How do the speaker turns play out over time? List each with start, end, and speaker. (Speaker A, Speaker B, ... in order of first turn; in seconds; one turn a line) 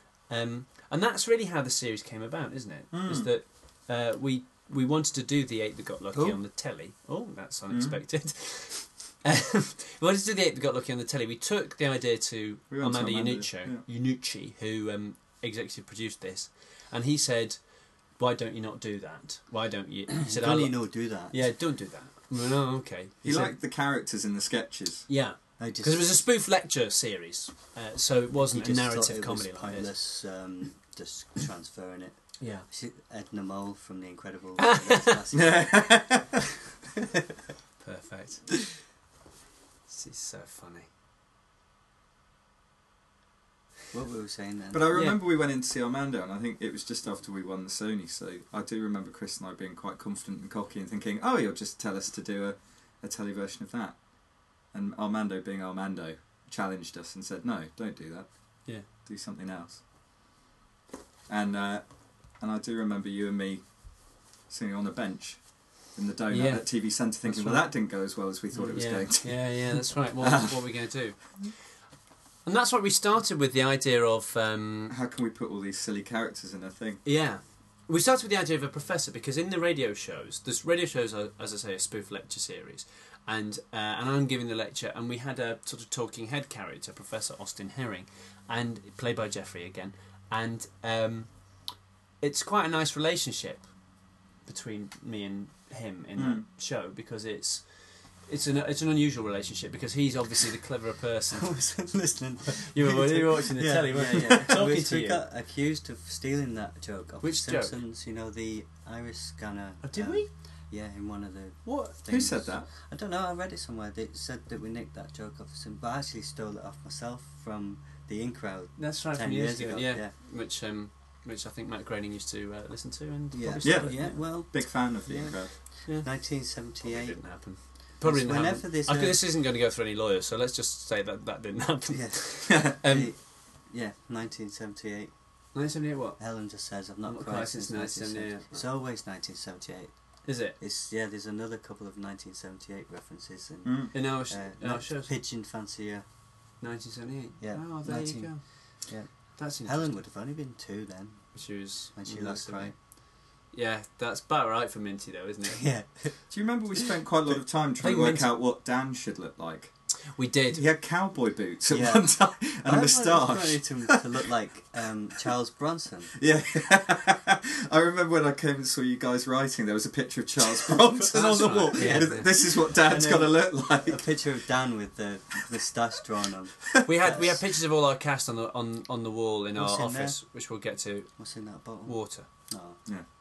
Speaker A: 0.3-23.5
Speaker B: 2.9-3.3
Speaker C: 6.1-6.4
Speaker B: 7.7-8.0
Speaker B: 12.7-13.8
Speaker C: 20.1-21.5
Speaker B: 23.2-25.1
Speaker A: 25.1-29.9
Speaker C: 25.6-26.1
Speaker C: 28.4-36.2
Speaker A: 32.4-32.7
Speaker A: 34.6-35.2
Speaker B: 35.3-36.4
Speaker A: 37.8-38.8
Speaker A: 39.9-40.9
Speaker C: 43.9-44.9
Speaker B: 44.7-59.8
Speaker A: 44.9-45.2
Speaker B: 61.3-71.0
Speaker A: 66.3-67.8
Speaker A: 68.7-71.7
Speaker A: 72.4-75.0
Speaker B: 74.9-77.0
Speaker A: 77.0-91.6
Speaker A: 92.2-93.7
Speaker A: 94.5-101.6
Speaker B: 96.2-96.5
Speaker C: 101.3-120.1
Speaker A: 102.5-105.2
Speaker A: 107.2-107.8
Speaker A: 109.8-110.3
Speaker A: 111.7-112.0
Speaker B: 112.1-112.7
Speaker A: 118.8-124.2
Speaker C: 123.3-127.4
Speaker B: 123.6-125.6
Speaker A: 126.6-133.1
Speaker C: 128.0-129.2
Speaker C: 131.9-135.2
Speaker B: 132.5-132.8
Speaker A: 135.5-136.2
Speaker C: 136.2-146.1
Speaker A: 137.0-138.6
Speaker A: 140.2-140.6
Speaker B: 143.7-143.9
Speaker A: 143.9-145.1
Speaker A: 146.6-148.4
Speaker C: 147.4-151.4
Speaker A: 149.4-150.0
Speaker A: 151.3-152.8
Speaker C: 151.9-152.8
Speaker A: 153.5-155.7
Speaker C: 155.4-156.9
Speaker B: 156.3-159.7
Speaker A: 157.8-158.3
Speaker A: 160.1-160.6
Speaker B: 160.5-164.0
Speaker C: 161.7-166.1
Speaker B: 166.2-174.1
Speaker A: 171.1-172.3
Speaker C: 171.7-177.4
Speaker A: 176.8-181.3
Speaker C: 179.6-180.2
Speaker C: 181.2-182.8
Speaker A: 181.8-182.3